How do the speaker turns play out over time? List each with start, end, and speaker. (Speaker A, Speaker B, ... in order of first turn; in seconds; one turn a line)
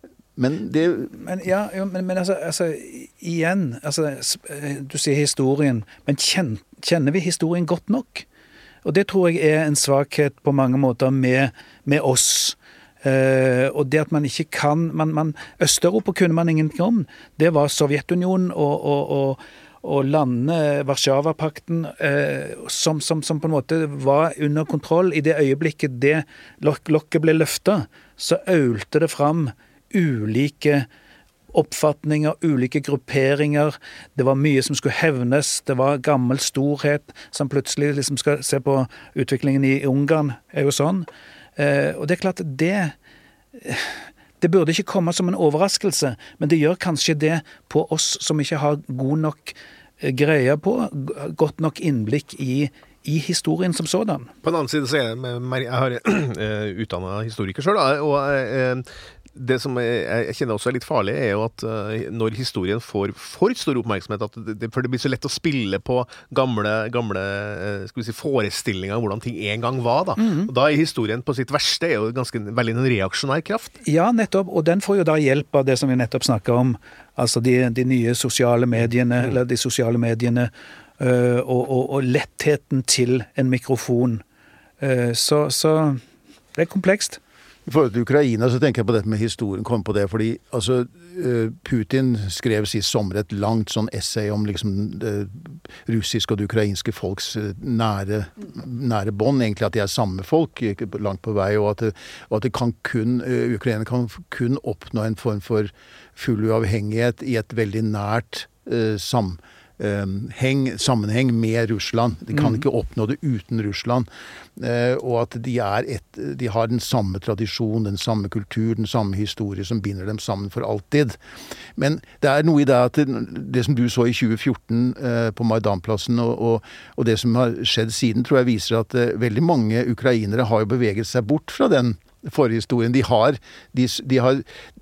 Speaker A: 0.3-1.1
Speaker B: 1.1-8.2
Speaker B: 8.8-30.9
Speaker B: 31.5-42.9
Speaker B: 43.5-54.3
Speaker C: 54.4-73.8
Speaker B: 70.2-70.5
Speaker B: 73.8-84.2
Speaker B: 84.8-86.0
Speaker B: 86.5-87.2
Speaker A: 87.7-121.2
Speaker B: 112.3-112.6
Speaker A: 121.8-134.4